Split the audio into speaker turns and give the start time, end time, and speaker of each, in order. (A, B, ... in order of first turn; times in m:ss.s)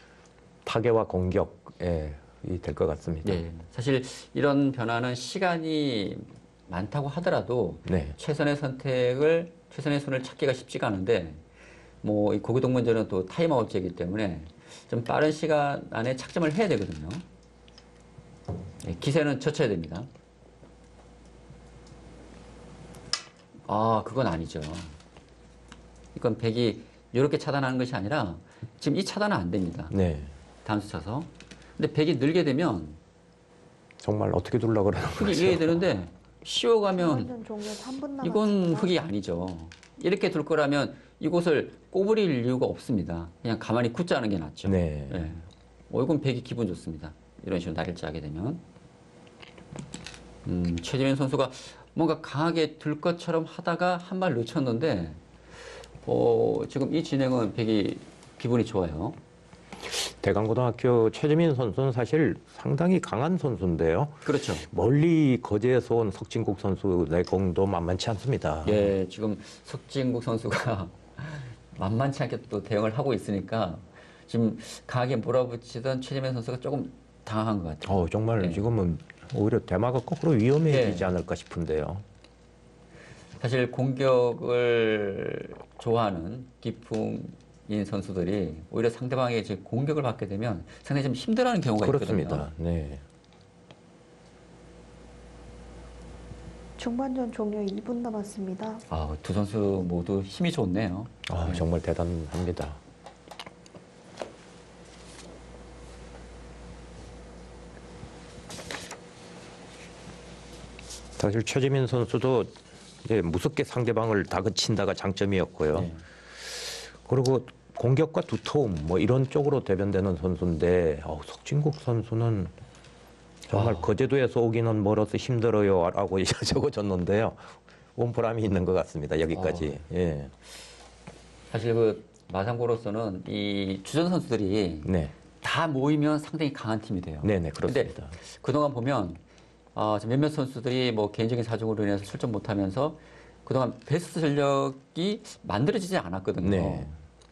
0:00.6-0:03.4 A
0:03.2-0:11.4 B
0:07.8-0:08.2 A
0:12.0-0:17.2 B
0:18.8-0:20.1 B
0:23.7-0:25.0 B
0:26.1-0:29.9 B
0:29.9-0:30.3 A
0:30.6-0:33.0 B
0:34.0-0:35.8 A
0:35.1-0:37.3 B
0:36.9-0:39.0 C
0:38.2-0:48.6 B
0:44.6-0:45.3 A
0:50.4-0:55.2 B
0:56.0-0:59.2 B
0:59.8-1:08.9 A
1:04.2-1:04.7 B
1:08.6-1:18.7 B
1:17.8-1:22.0 A
1:20.7-1:21.1 B
1:23.4-1:32.5 B
1:31.8-1:33.0 A
1:36.8-1:38.8 C
1:38.9-1:41.6 B
1:41.3-1:42.8 A
1:51.2-2:02.5 A
1:55.7-1:56.0 B
2:03.5-2:10.3 A
2:03.5-2:03.9 B
2:09.3-2:09.7 B
2:11.5-2:19.2 B
2:14.8-2:15.1 A
2:17.2-2:18.2 A
2:19.7-2:26.9 B
2:26.4-2:27.0 A